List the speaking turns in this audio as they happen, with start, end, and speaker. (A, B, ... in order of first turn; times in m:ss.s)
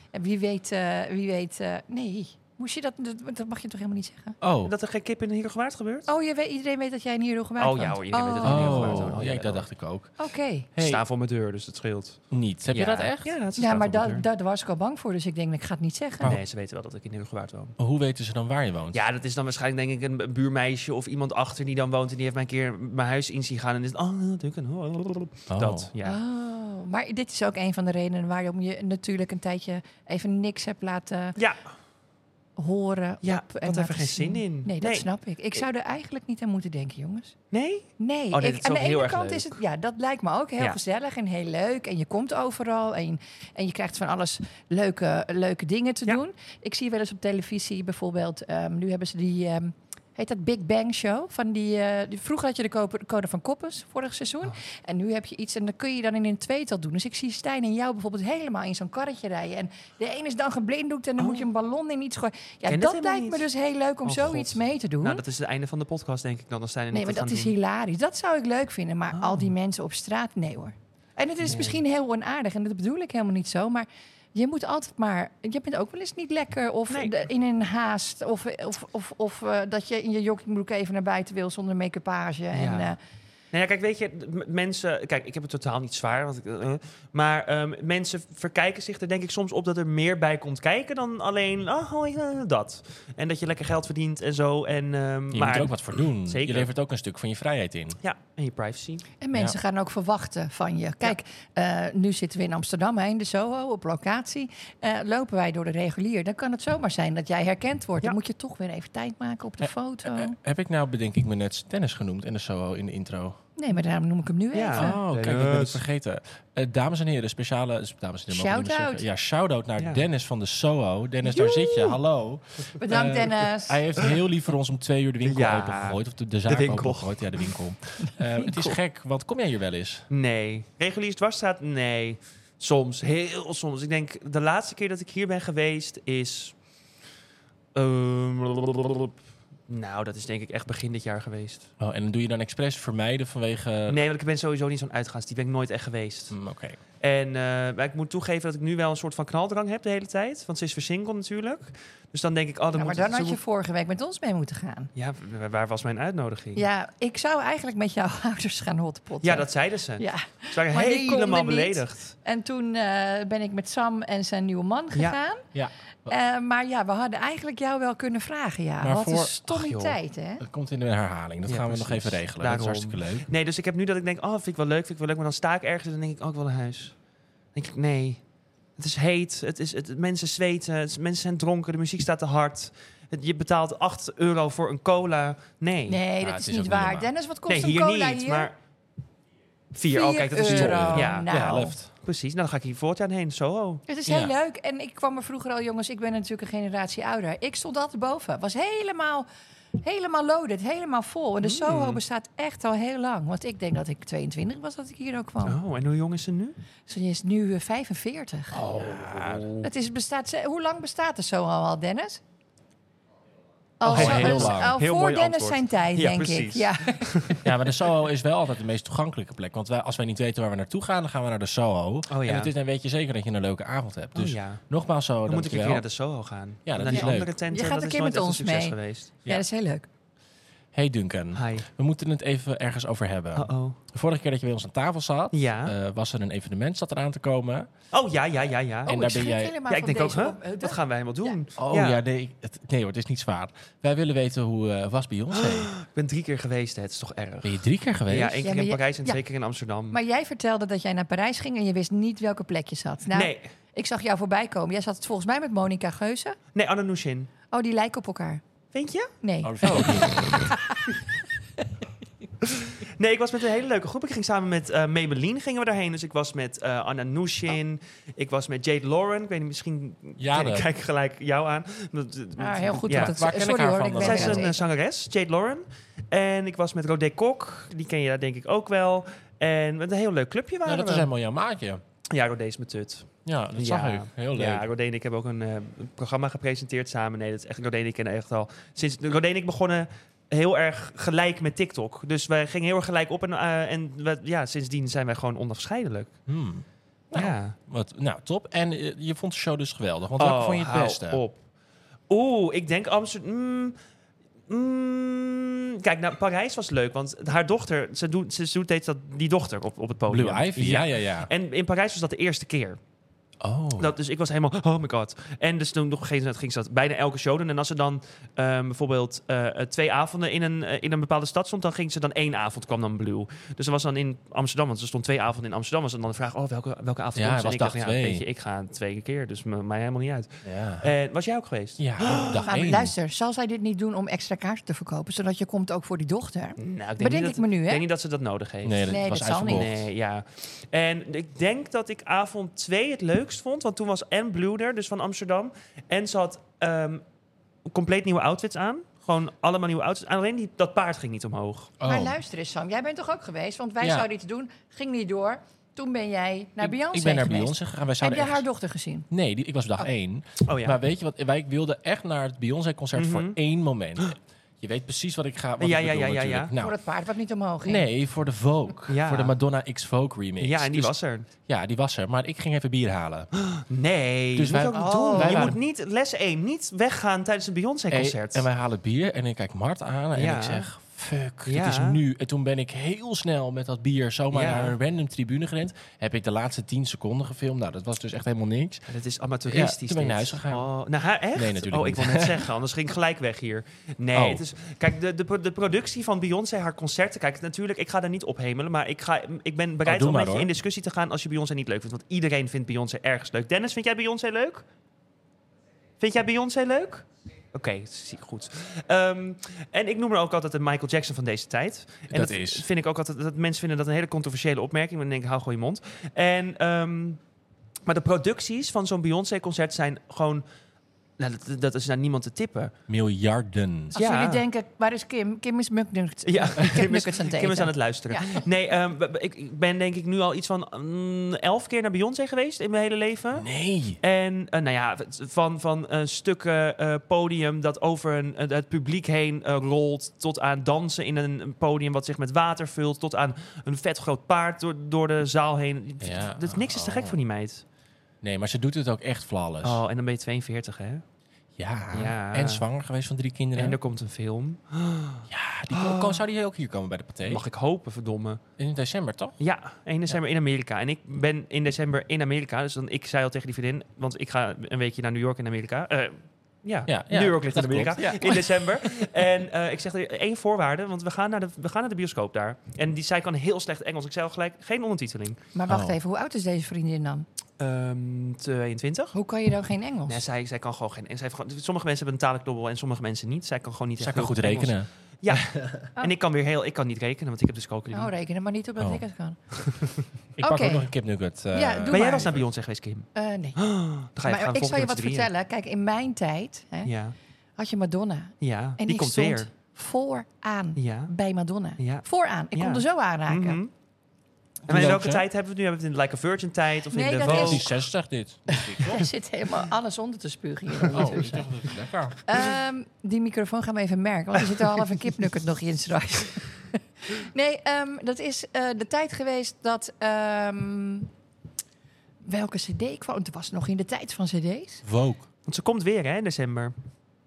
0:00.1-0:04.4 A
0:04.4-0:04.7 B
0:04.6-0:06.1 C
0:06.1-0:09.2 A
0:07.6-0:09.7 C
0:08.4-0:10.2 B
0:10.2-0:10.7 A
0:10.8-0:11.0 B
0:10.8-0:12.2 C
0:12.3-0:13.3 B
0:12.7-0:14.2 C
0:13.6-0:16.3 A
0:16.2-0:17.8 C
0:17.8-0:19.0 B
0:18.9-0:26.2 C
0:25.5-0:25.9 B
0:26.0-0:31.4 A
0:32.6-0:37.4 A
0:33.2-0:35.1 C
0:37.5-0:39.6 C
0:38.0-1:05.2 A
1:01.2-1:01.5 C
1:02.7-1:03.5 C
1:04.0-1:07.5 C
1:06.9-1:23.0 A
1:09.1-1:09.5 C
1:11.4-1:11.8 C
1:16.9-1:17.3 C
1:22.5-1:23.0 C
1:23.5-1:36.7 C
1:35.3-1:38.0 B
1:38.0-1:39.0 C
1:39.2-1:50.4 A
1:49.6-1:53.4 B
1:53.6-1:55.0 A
1:54.5-1:55.8 C
1:54.8-2:10.1 B
1:58.3-1:59.0 A
1:59.8-2:00.0 C
2:01.3-2:02.0 C
2:02.8-2:03.8 A
2:05.2-2:07.5 C
2:08.4-2:08.8 A
2:10.1-2:16.6 C
2:17.8-2:19.2 C
2:19.7-2:21.7 C
2:21.8-2:24.0 B
2:23.9-2:26.4 C
2:26.3-2:26.8 B
2:27.0-2:33.4 C
2:32.7-2:34.9 A
2:35.0-2:36.6 C
2:36.6-2:45.4 A
2:39.2-2:42.2 C
2:45.6-2:46.1 B
2:46.1-2:50.4 A
2:48.8-2:49.4 B
2:49.5-2:50.0 C
2:50.4-2:53.3 B
2:51.5-2:57.0 C
2:57.6-2:58.2 C
2:58.8-3:06.0 C
3:05.9-3:08.5 A
3:06.2-3:07.1 B
3:07.5-3:08.5 C
3:09.7-3:11.4 C
3:09.9-3:11.8 A
3:10.4-3:11.9 B
3:12.0-3:13.8 C
3:13.9-3:19.3 A
3:14.1-3:14.3 B
3:19.8-3:25.6 A
3:21.4-3:22.0 C
3:25.4-3:26.6 C
3:26.9-3:28.6 A
3:28.5-3:29.7 C
3:28.7-3:29.5 B
3:29.6-3:32.2 A
3:33.8-3:37.4 A
3:33.9-3:37.5 C
3:33.9-3:34.7 B
3:37.4-3:45.8 B
3:42.1-3:42.5 C
3:44.2-3:44.6 C
3:45.3-3:49.1 C
3:46.7-3:47.3 B
3:46.9-3:49.9 A
3:50.7-3:57.7 B
3:51.3-3:51.7 C
3:53.4-3:53.8 C
3:55.3-3:55.7 C
3:57.9-3:59.0 C
3:58.9-4:01.4 A
3:58.9-3:59.6 B
3:59.7-4:02.0 C
4:01.6-4:05.7 B
4:05.3-4:10.0 C
4:07.4-4:08.5 B
4:08.4-4:09.2 A
4:09.9-4:16.4 A
4:13.1-4:13.4 C
4:16.5-4:17.3 C
4:17.5-4:18.4 A
4:18.7-4:19.1 C
4:19.2-4:21.0 A
4:19.4-4:20.5 B
4:19.6-4:20.1 C
4:22.4-4:33.2 C
4:30.2-4:30.7 B
4:32.4-4:34.6 A
4:32.9-4:34.5 B
4:34.0-4:41.1 C
4:40.7-4:41.8 B
4:42.1-4:56.1 C
4:43.3-4:44.7 B
4:56.3-5:01.2 B
4:57.1-4:57.6 C
5:00.2-5:01.4 C
5:02.1-5:03.8 C
5:04.5-5:12.8 C
5:10.1-5:11.3 B
5:13.4-5:14.0 B
5:13.8-5:32.5 C
5:27.2-5:28.2 B
5:30.4-5:30.9 B
5:31.8-5:32.9 B
5:32.4-5:37.8 A
5:36.6-5:47.0 C
5:38.6-5:39.9 B
5:38.9-5:39.7 A
5:47.7-5:51.7 C
5:51.8-5:52.2 B
5:51.8-5:59.1 A
5:53.8-5:54.1 B
5:56.6-5:58.4 B
5:59.1-6:06.8 B
6:00.5-6:00.8 C
6:03.0-6:03.4 C
6:05.6-6:06.5 C
6:06.6-6:07.9 A
6:07.6-6:10.9 B
6:08.9-6:09.3 C
6:10.4-6:11.3 C
6:11.5-6:13.3 B
6:13.4-6:18.5 C
6:14.4-6:15.6 B
6:14.7-6:15.6 A
6:17.9-6:28.9 B
6:20.2-6:20.7 C
6:21.5-6:22.0 C
6:24.3-6:24.7 C
6:28.9-6:44.6 C
6:29.5-6:30.7 B
6:31.4-6:32.5 B
6:34.1-6:34.4 B
6:39.8-6:40.5 B
6:46.0-6:57.2 C
6:52.1-6:52.7 B
6:57.9-7:00.4 C
7:01.2-7:02.7 C
7:02.9-7:03.9 B
7:03.9-7:08.5 A
7:04.0-7:04.4 C
7:06.3-7:27.6 C
7:13.3-7:14.0 B
7:26.0-7:27.2 B
7:28.2-7:29.8 B
7:29.6-7:31.0 C
7:31.6-7:33.8 B
7:31.9-7:32.6 C
7:33.6-7:36.2 C
7:35.3-7:37.4 B
7:37.3-7:38.4 C
7:38.6-7:39.4 B
7:39.4-7:55.4 C
7:46.9-7:49.1 B
7:55.5-7:57.3 A
7:55.7-7:56.0 B
7:57.6-7:59.2 C
7:59.1-8:00.2 A
8:00.1-8:08.1 C
8:04.0-8:05.9 B
8:07.9-8:09.4 A
8:10.4-8:12.4 B
8:10.4-8:10.9 A
8:11.5-8:12.3 A
8:11.9-8:15.3 C
8:13.2-8:13.6 A
8:14.2-8:16.9 A
8:16.8-8:17.2 C
8:17.6-8:23.6 A
8:18.4-8:19.5 C
8:20.8-8:21.1 C
8:21.8-8:23.7 C
8:24.7-8:25.3 B
8:24.7-8:27.7 C
8:26.9-8:27.7 A
8:27.2-8:29.1 B
8:28.5-8:31.5 A
8:30.9-8:32.2 B
8:32.3-8:41.1 A
8:42.2-8:44.8 A
8:44.8-8:45.2 B
8:45.5-8:46.7 C